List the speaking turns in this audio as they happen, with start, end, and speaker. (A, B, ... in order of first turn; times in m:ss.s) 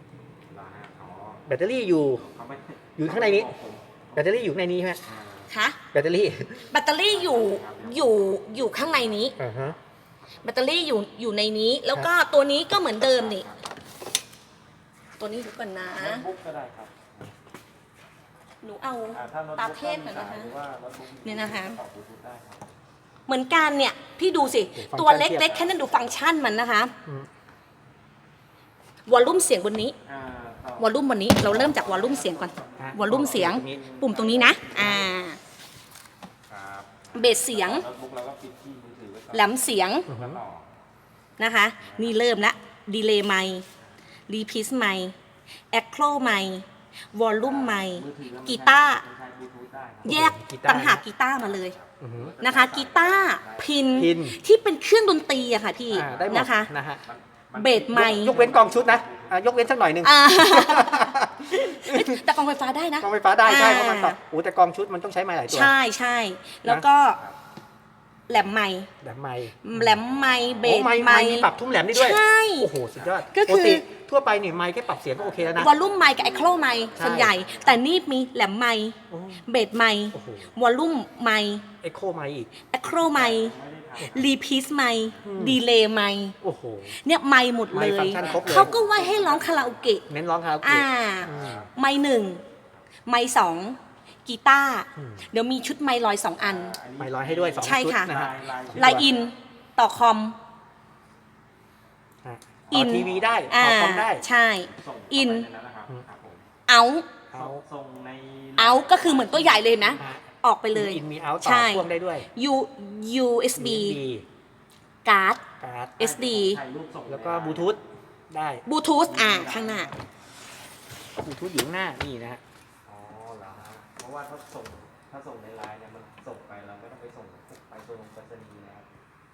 0:00.5-0:01.4 A
0:01.4-0:02.2 B
0:02.2-0:04.2 A
0:03.0-0:03.5 B
0:04.2-0:05.0 B
0:05.0-0:05.5 A
0:05.5-0:05.8 C
0:05.9-0:06.7 B
0:06.7-0:09.4 C
0:07.1-0:09.3 A
0:09.4-0:09.8 B
0:10.4-0:13.4 C
0:13.1-0:13.6 A
0:15.2-0:16.2 C
0:16.0-0:17.3 A
0:18.6-0:20.5 C
0:19.1-0:22.7 A
0:21.2-0:21.8 C
0:23.3-0:26.9 C
0:24.8-0:25.6 B
0:29.1-0:29.9 C
0:30.0-0:35.1 A
0:30.8-0:35.4 C
0:32.8-0:33.8 B
0:36.5-0:40.7 A
0:37.1-0:37.8 C
0:39.3-0:40.1 C
0:40.1-0:40.4 B
0:41.4-0:43.6 C
0:41.8-0:42.2 A
0:44.3-0:45.2 C
0:45.7-0:49.0 C
0:47.4-0:50.2 A
0:50.0-0:51.0 B
0:50.0-0:51.8 C
0:51.4-0:54.1 A
0:52.0-0:52.3 B
0:52.4-0:56.7 C
0:54.0-0:54.4 B
0:55.9-0:56.5 A
0:55.9-0:57.0 B
0:57.0-0:59.7 A
0:57.5-0:58.5 C
0:57.9-1:02.3 B
1:00.0-1:04.2 C
1:03.0-1:05.7 B
1:05.5-1:07.2 C
1:08.3-1:08.9 C
1:09.0-1:10.0 B
1:09.6-1:12.7 C
1:10.2-1:10.7 A
1:10.6-1:15.7 B
1:13.0-1:13.2 A
1:13.3-1:13.8 C
1:15.1-1:17.8 A
1:15.6-1:21.6 C
1:17.0-1:17.4 B
1:19.1-1:19.4 B
1:20.1-1:20.5 B
1:21.8-1:22.5 B
1:22.7-1:26.3 C
1:23.1-1:24.4 A
1:25.2-1:25.6 B
1:26.4-1:27.0 B
1:26.9-1:30.0 C
1:27.7-1:28.8 B
1:27.8-1:29.9 A
1:30.0-1:31.6 B
1:30.6-1:32.4 C
1:31.2-1:31.7 A
1:33.0-1:36.7 C
1:35.0-1:35.2 B
1:36.4-1:39.2 A
1:37.0-1:39.1 B
1:37.6-1:38.2 C
1:38.7-1:40.4 C
1:42.2-1:44.2 B
1:42.7-1:43.5 A
1:42.7-1:45.5 C
1:44.7-1:46.4 A
1:46.7-1:47.1 C
1:47.3-1:50.0 A
1:47.3-1:47.6 B
1:48.6-1:54.0 C
1:49.9-1:52.3 B
1:53.6-1:54.2 B
1:55.0-1:55.4 C
1:55.6-1:56.2 B
1:56.0-1:56.6 C
1:56.1-1:57.8 A
1:57.1-1:58.6 B
1:58.7-1:59.9 C
1:59.0-2:00.0 A
2:01.2-2:02.4 B
2:02.8-2:08.9 A